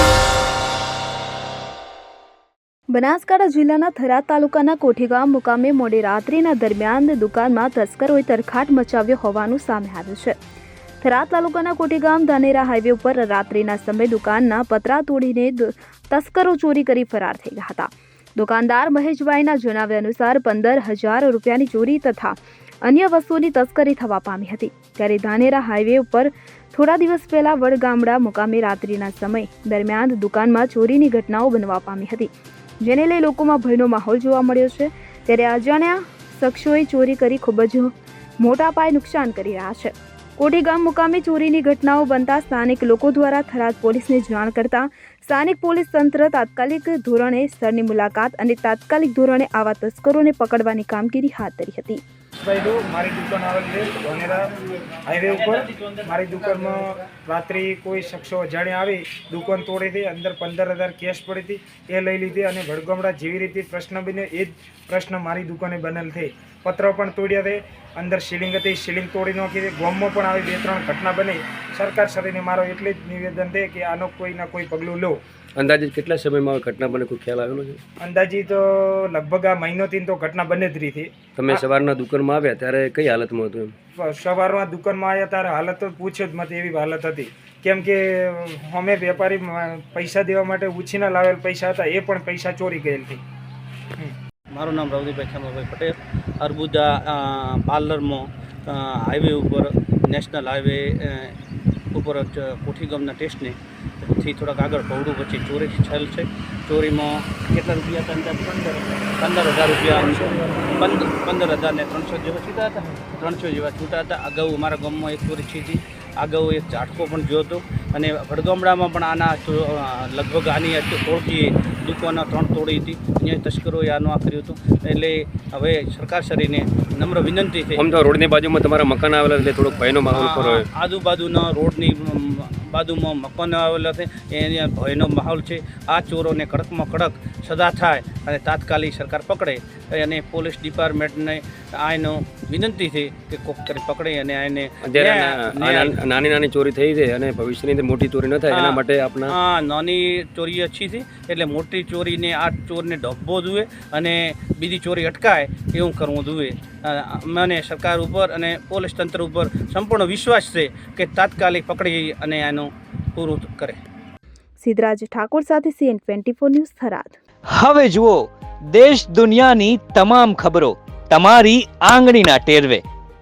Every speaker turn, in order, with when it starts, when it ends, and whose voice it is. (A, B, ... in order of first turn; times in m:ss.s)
0:02.9-0:10.4 A
0:11.0-0:52.0 A
0:52.4-1:15.2 B
1:15.6-1:17.8 C
1:18.0-1:21.6 B
1:21.4-1:23.7 C
1:24.0-1:33.2 B
1:34.5-1:41.4 D
1:41.9-2:07.9 D
1:50.3-1:50.7 B
2:07.8-2:10.7 C
2:10.1-2:26.0 D
2:24.8-2:29.3 C
2:28.5-2:43.8 D
2:44.6-2:47.2 A
2:47.5-2:52.8 E